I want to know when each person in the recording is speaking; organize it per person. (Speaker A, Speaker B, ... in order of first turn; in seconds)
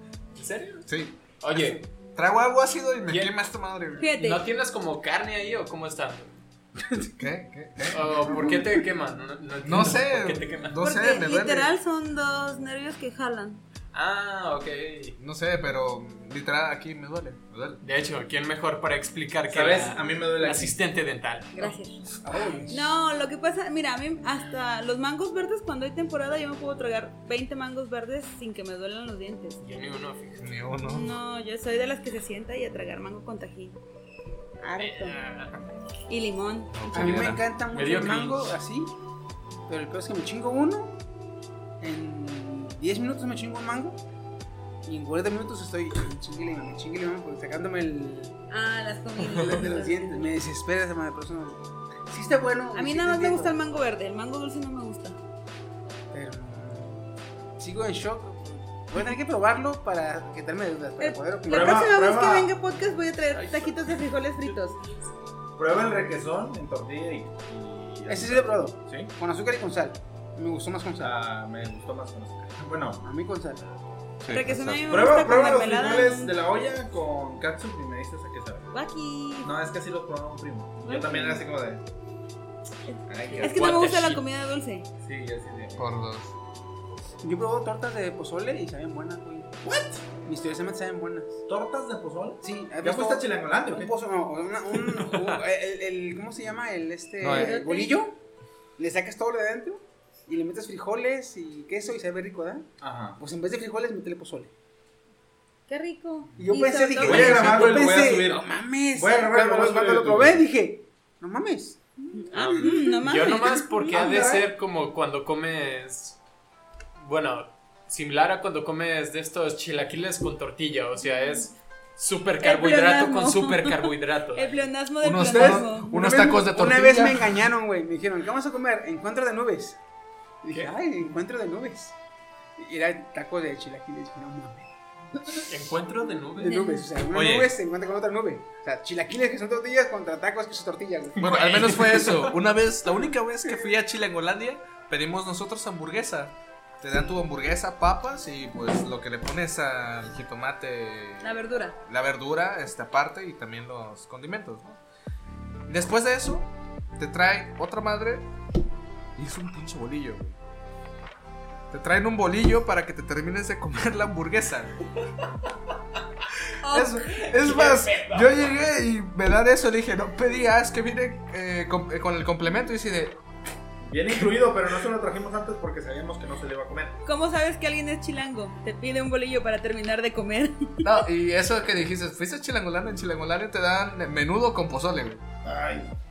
Speaker A: 0.3-0.9, 1.4-1.8, 3.1-3.3, 4.0-6.4, 7.9-10.8, 13.9-15.2, 17.8-21.8, 29.6-30.5, 34.8-35.5, 37.7-38.5, 83.4-84.2, 95.0-95.4, 112.3-116.2, 117.0-124.7, 135.5-136.7, 141.3-142.2, 167.4-168.2
Speaker B: 0.9-4.1, 7.2-8.6, 9.6-11.7, 15.2-17.8, 30.4-31.2, 36.7-37.4, 74.2-75.0, 85.8-86.3, 97.2-97.6, 125.0-127.4, 137.1-137.5, 141.2-154.8, 155.7-158.3, 159.2-160.4, 161.7-164.7, 166.6-173.2, 180.8-185.2
Speaker C: 4.0-4.4, 10.8-13.6, 21.6-22.0, 22.7-29.6, 30.9-33.8, 34.6-35.2, 36.1-37.2, 48.5-50.3, 52.7-55.2, 61.0-64.8, 74.3-76.3, 78.7-79.5, 80.8-81.4, 82.9-84.9, 97.3-98.0, 105.7-107.8, 112.1-113.8, 121.0-121.4, 122.4-125.9, 136.5-136.8, 151.2-151.8, 166.6-167.0, 177.0-180.9
Speaker D: 19.5-20.8, 61.4-62.5, 65.6-69.1, 71.0-73.0, 74.8-78.7, 79.4-81.8, 83.1-83.8, 85.0-85.9, 89.6-90.1, 91.5-93.9, 102.8-103.2, 107.0-110.4, 113.9-114.5, 173.8-177.0, 185.4-185.9
Speaker E: 22.2-22.9, 36.9-38.9, 39.7-41.0, 41.8-44.0, 44.8-48.4, 49.2-53.6, 56.1-61.8, 68.1-71.1, 73.0-73.6, 87.2-89.6, 90.2-91.4, 92.4-98.1, 98.8-104.5, 106.4-111.8, 125.3-129.8, 130.4-131.9, 132.6-135.4, 136.4-142.0